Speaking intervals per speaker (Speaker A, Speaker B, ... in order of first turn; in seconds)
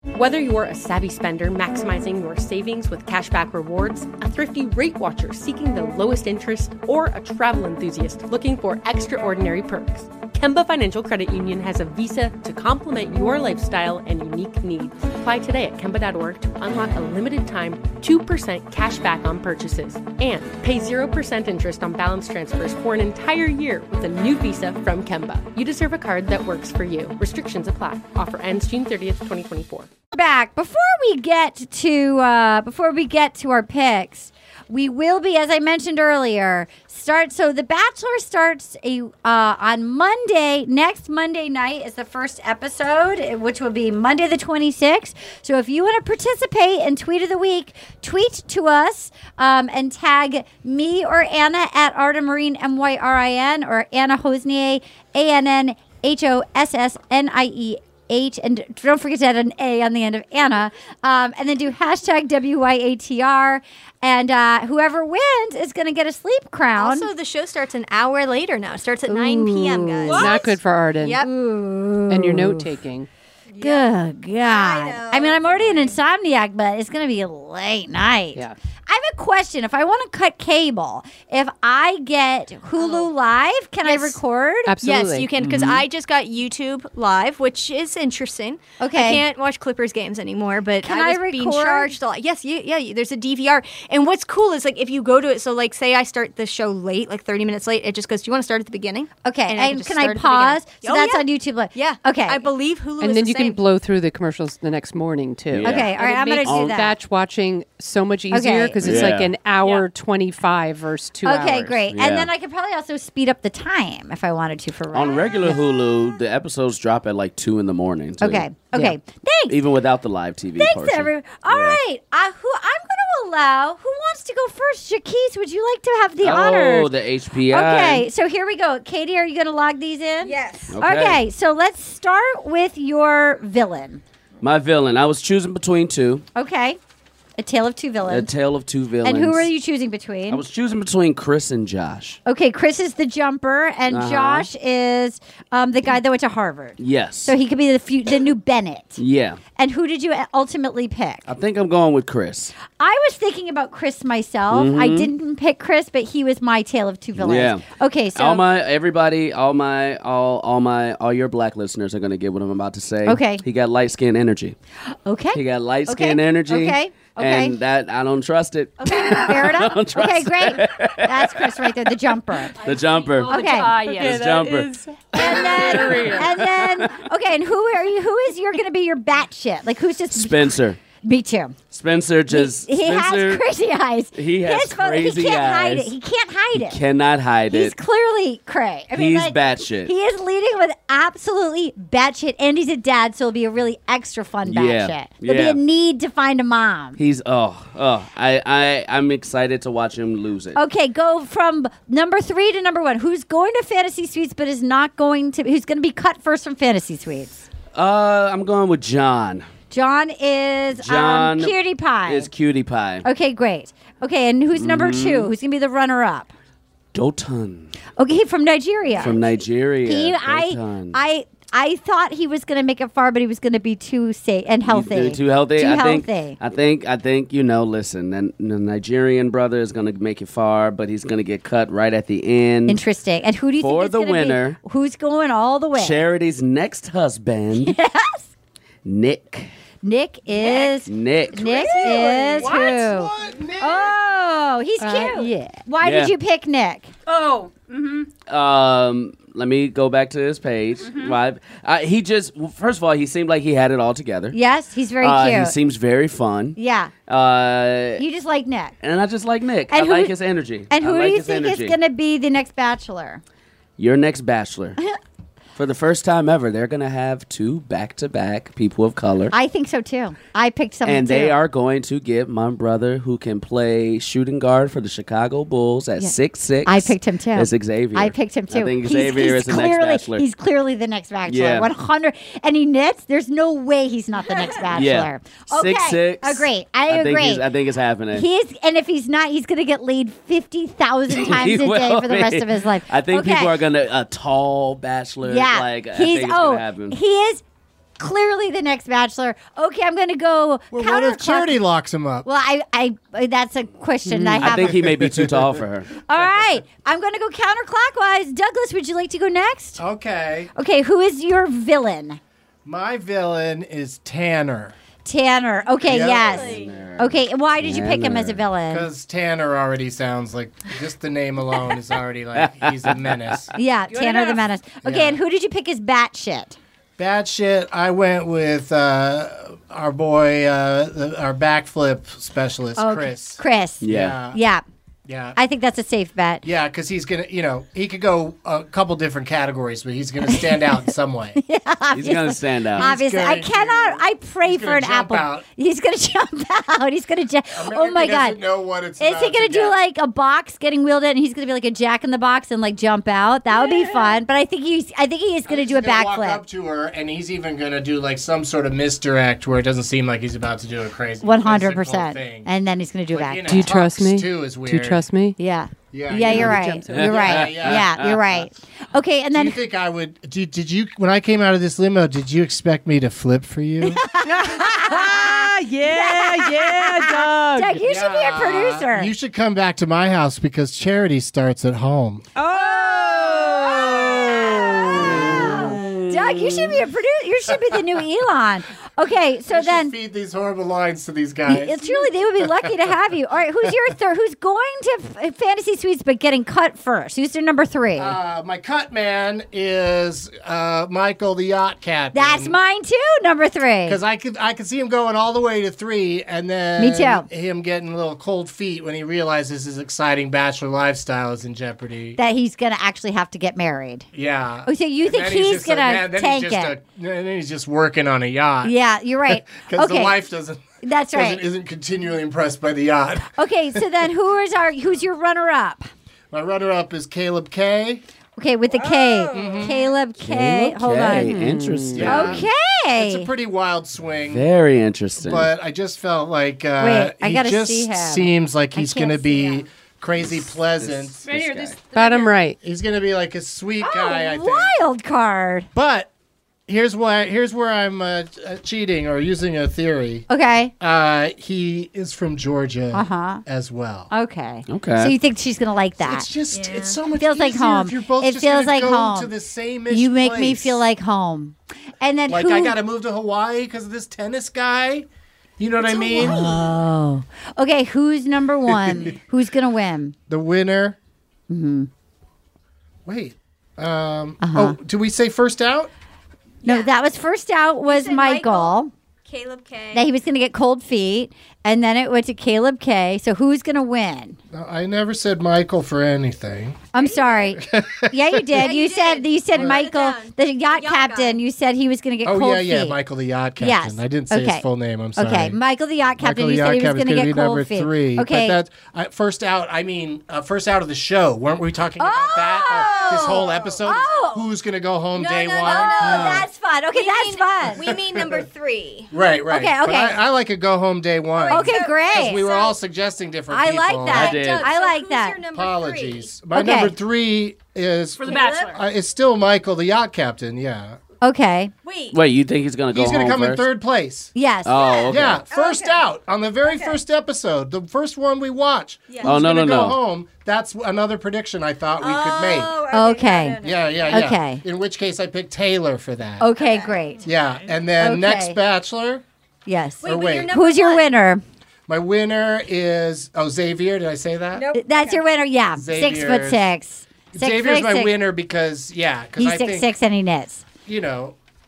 Speaker A: 0.1-29.9
Speaker B: 30.1-67.1, 69.1-70.4, 71.2-72.7, 73.6-84.7, 88.8-89.2, 90.8-91.9, 99.2-102.4, 105.6-107.0, 108.3-109.1, 111.2-115.7, 118.2-119.6, 120.6-126.9, 127.4-134.0, 136.3-136.8, 137.4-138.3, 139.0-140.4, 142.2-149.0, 149.6-151.3, 152.6-158.4, 163.0-163.4, 165.0-167.6, 168.8-172.7, 173.3-173.9, 175.1-181.6, 182.3-186.8, 187.5-197.0, 200.5-207.4, 209.7-212.3, 213.0-216.3, 218.0-226.4, 232.7-236.0, 237.5-238.3, 239.8-246.9, 254.3-255.6, 256.6-256.9, 258.0-258.7, 259.7-260.1, 260.7-263.2, 269.3-271.4, 276.0-287.4, 288.1-293.6, 295.2-297.4, 298.0-301.6, 302.2-304.9, 306.1-309.8, 310.5-312.2, 315.0-318.9, 323.6-326.6, 332.8-334.6, 335.4-336.4, 340.3-340.7, 341.4-348.4, 349.0-356.4, 361.2-363.7, 365.4-369.6, 373.8-379.1, 382.5-389.9, 391.5-398.2, 402.1-404.0, 406.8-407.2, 412.2-414.1, 414.7-416.8, 418.6-420.1, 420.8-421.4, 423.4-425.9, 428.4-431.4, 432.1-433.3, 436.8-439.6, 443.8-445.7, 450.3-450.7, 452.9-453.4, 454.1-456.3, 457.1-459.3, 459.9-462.7, 465.9-470.1, 471.5-471.9, 474.4-474.8, 476.6-478.9, 479.9-484.4, 486.9-492.9, 493.6-494.6, 495.2-498.6, 502.0-504.4, 505.6-507.9, 509.5-510.2, 511.5-512.5, 513.5-515.4, 516.5-516.9, 521.2-521.7, 524.3-525.1, 532.9-533.6, 534.1-534.6, 536.4-537.3, 538.0-538.6, 539.6-541.4, 544.8-548.1, 549.4-550.6
Speaker C: 66.8-71.3, 73.5-76.0, 82.8-83.1, 83.8-84.2, 84.8-103.6, 130.2-130.8, 240.4-240.7, 241.4-242.6, 315.9-316.8, 323.9-324.4, 428.7-429.9, 456.5-457.0, 466.2-466.6, 476.6-476.9, 477.9-480.1, 487.0-487.5, 488.6-491.4, 502.7-504.3, 505.1-509.1, 511.3-512.8, 514.1-516.3, 518.2-518.7, 521.8-522.1, 525.0-526.0, 526.6-527.0, 529.1-529.4, 532.0-534.2, 536.6-537.0, 540.0-541.1, 544.5-545.2
Speaker D: 70.0-71.2, 72.1-73.1, 84.7-85.8, 103.0-111.8, 173.9-176.3, 244.8-245.3, 304.0-304.5, 363.4-365.4, 366.1-367.5, 374.2-377.8, 382.4-383.8, 431.0-432.4, 441.9-442.6
Speaker E: 105.5-106.8, 108.8-109.3, 111.9-112.3, 114.9-118.5, 119.5-121.8, 126.2-128.1, 130.7-131.2, 134.4-136.2, 138.0-139.5, 140.3-142.2, 143.9-144.5, 146.8-147.3, 149.0-149.4, 151.3-152.5, 154.5-155.1, 157.2-164.6, 165.3-171.9, 172.5-174.8, 175.3-177.0, 180.1-180.8, 181.7-183.4, 184.1-185.9, 186.5-187.7, 188.9-189.9, 194.5-195.6, 197.0-200.6, 207.7-209.5, 210.8-211.5, 212.1-213.0, 214.5-215.3, 216.9-217.7, 219.0-221.0, 224.6-232.8, 233.6-234.6, 235.7-237.8, 238.8-239.5, 240.8-241.6, 245.8-246.1, 248.3-254.4, 255.0-256.6, 257.1-258.0, 258.8-261.8, 263.8-264.8, 265.6-269.3, 270.8-280.2, 281.2-281.7, 284.7-288.2, 291.1-297.0, 304.4-305.9, 316.5-318.4, 322.4-323.4, 333.8-334.2, 341.9-343.0, 366.9-368.4, 384.6-386.8, 430.2-432.4, 434.3-435.5, 440.2-441.8, 454.7-455.1, 514.1-514.7, 522.1-523.6, 524.6-525.4, 529.2-530.0
Speaker F: 109.6-109.8, 172.6-174.3, 247.1-248.1, 250.8-251.2, 441.2-442.3, 518.2-518.8
Speaker G: 242.1-243.9, 300.7-302.3, 304.6-305.6, 309.8-310.5, 312.6-314.8, 315.8-316.5, 318.7-323.5, 324.8-325.2, 327.0-334.4, 335.1-335.4, 336.4-341.4, 342.7-345.4, 347.5-349.8, 355.5-362.5, 363.1-365.1, 365.9-367.9, 369.3-374.0, 377.8-382.2, 384.9-385.5, 389.5-392.9, 398.0-402.6, 403.8-412.2, 414.1-418.7, 419.3-423.8, 426.3-428.0, 429.3-429.8, 431.9-434.5, 435.2-441.3, 442.6-444.8, 445.7-446.1, 446.7-450.3, 450.8-454.1, 456.0-460.8, 462.3-466.5, 468.7-469.1, 470.3-471.0, 473.0-475.9, 484.5-486.8, 487.6-488.6, 492.2-495.6, 496.2-506.5, 507.8-508.4, 509.1-514.4, 515.5-521.0, 522.9-524.3, 525.1-532.8, 533.6-536.5, 537.2-539.2, 540.0-540.5, 541.9-544.7, 545.8-546.7, 547.3-549.9, 550.8-551.4